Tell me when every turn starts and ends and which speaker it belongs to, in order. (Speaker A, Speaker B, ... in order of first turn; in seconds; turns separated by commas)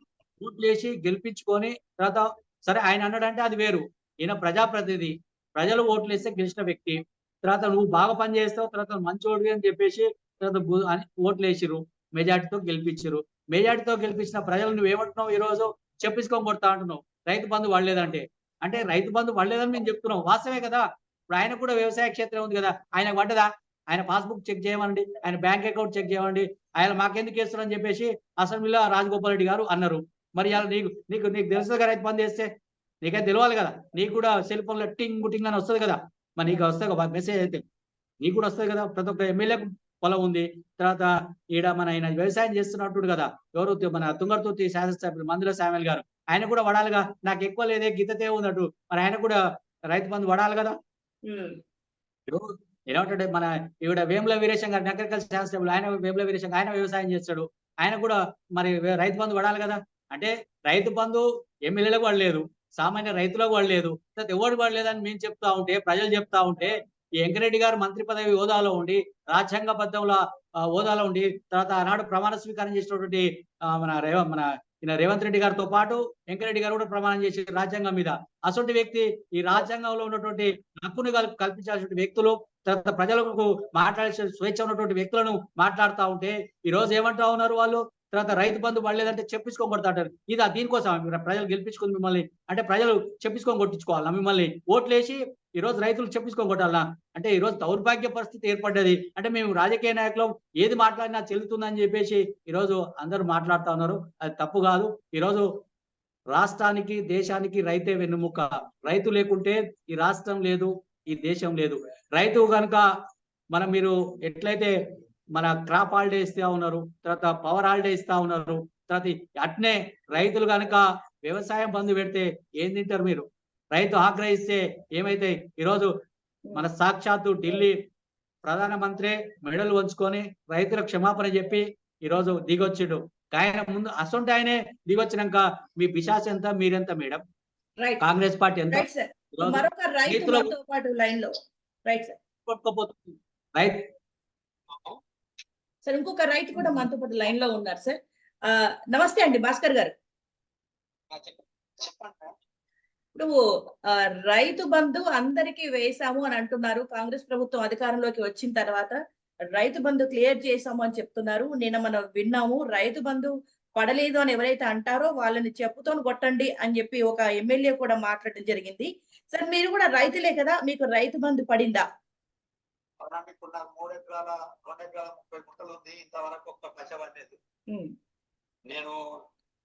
Speaker A: 0.4-32.5, Speaker A: 33.0-37.6, Speaker A: 38.2-49.4, Speaker A: 49.9-50.8, Speaker B: 51.2-51.6, Speaker A: 52.3-105.5, Speaker A: 106.3-112.8, Speaker A: 113.5-114.8, Speaker A: 115.3-125.9, Speaker A: 126.5-127.7, Speaker A: 128.4-137.2, Speaker A: 138.0-140.5, Speaker B: 138.7-141.3, Speaker B: 141.9-142.2, Speaker A: 142.5-143.8, Speaker C: 144.7-145.0, Speaker B: 145.9-149.9, Speaker C: 151.1-152.3, Speaker B: 153.9-159.0, Speaker B: 159.6-171.8, Speaker C: 173.0-177.4, Speaker C: 178.7-179.0